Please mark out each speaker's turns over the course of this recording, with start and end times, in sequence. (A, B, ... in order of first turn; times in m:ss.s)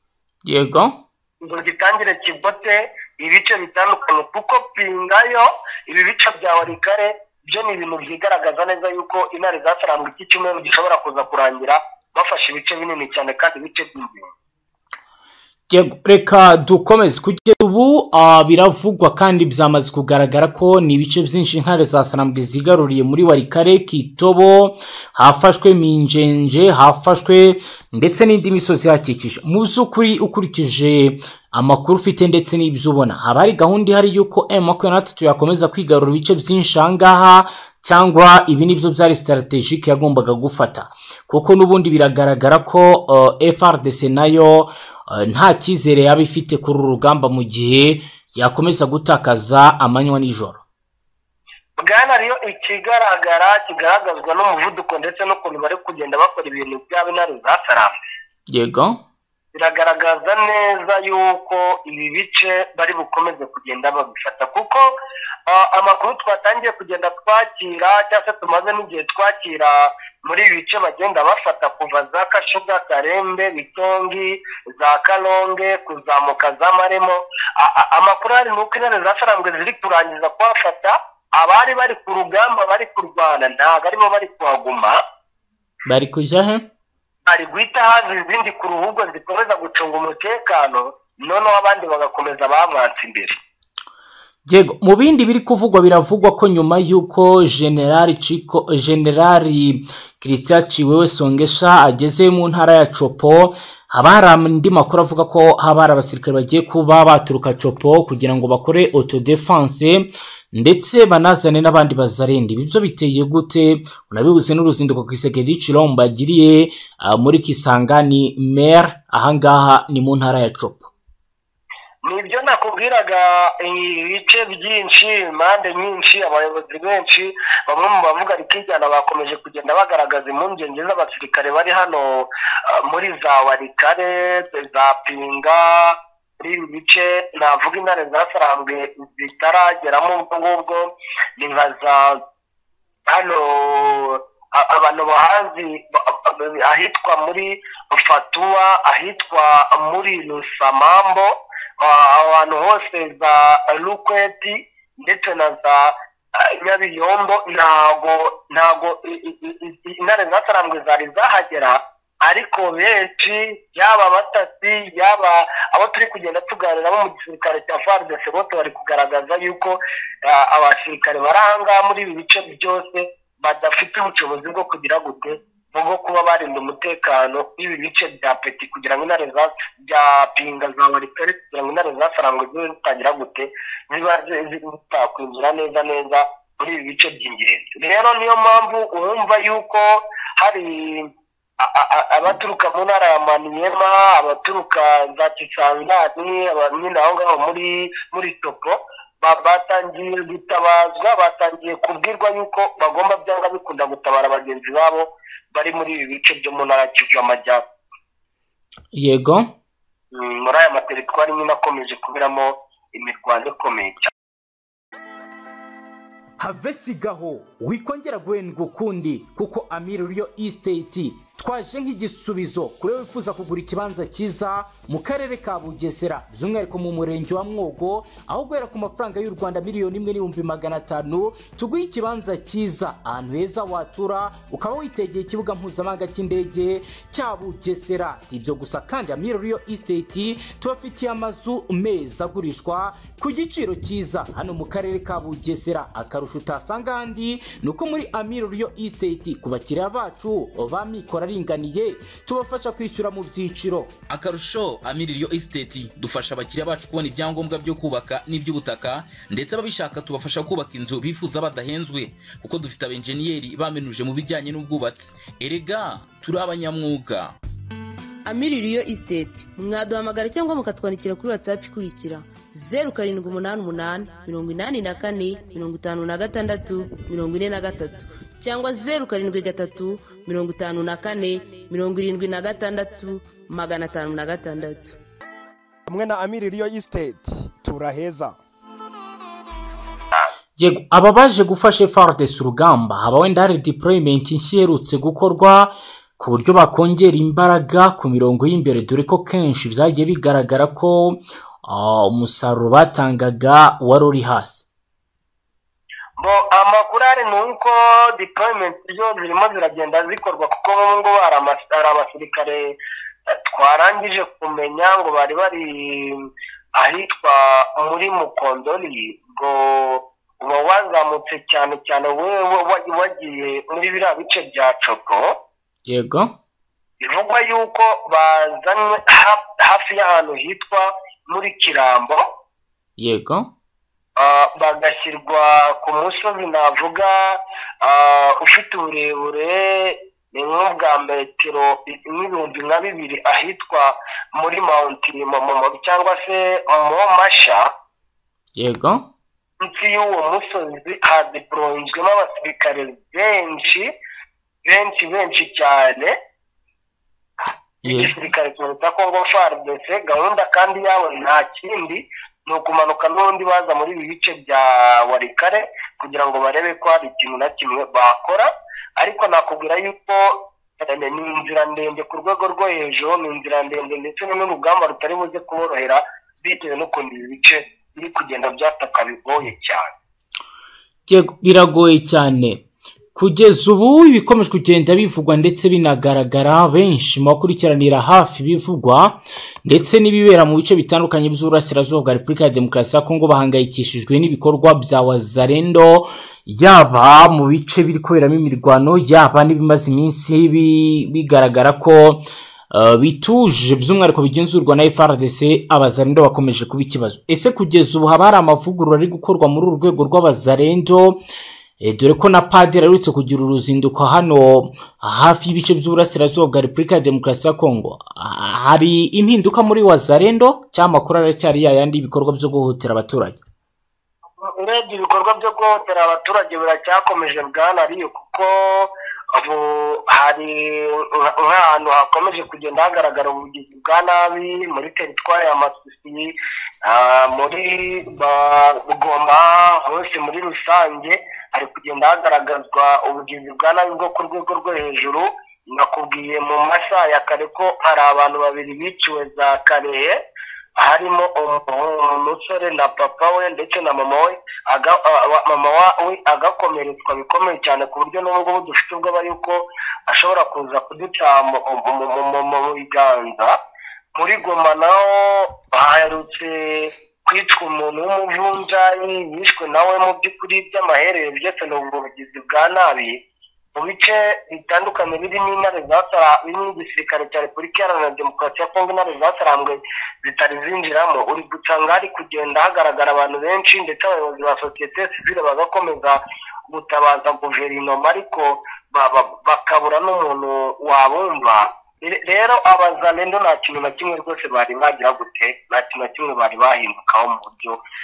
0:00.4-0:01.0 A
0:01.4-0:14.3 B
0:15.7-0:50.6 A
0:51.8-0:57.9 B
0:58.5-0:59.0 A
0:59.5-1:04.9 B
1:05.5-1:25.0 B
1:25.9-1:26.6 A
1:27.3-1:33.4 B
1:34.5-2:00.9 A
2:02.0-2:22.2 B
2:23.1-3:27.6 B
3:28.9-3:29.5 A
3:30.1-3:34.1 B
3:36.4-4:14.0 A
4:14.1-4:27.4 C
4:28.3-4:45.0 D
4:45.9-4:48.4 E
4:50.6-5:04.6 A
5:06.2-5:12.8 B
5:13.3-5:25.3 B
5:25.9-5:26.3 A
5:27.0-5:32.2 B
5:33.0-5:33.5 A
5:34.2-5:47.7 B
5:48.6-5:49.0 A
5:49.6-5:53.9 B
5:54.6-5:56.2 B
5:57.8-5:58.2 A
5:57.8-6:19.9 B
6:21.1-6:22.6 A
6:23.2-6:51.2 A
6:51.8-7:03.4 A
7:04.4-7:30.2 B
7:30.8-7:43.6 B
7:44.2-7:53.2 B
7:53.8-8:06.2 B
8:06.7-8:17.8 B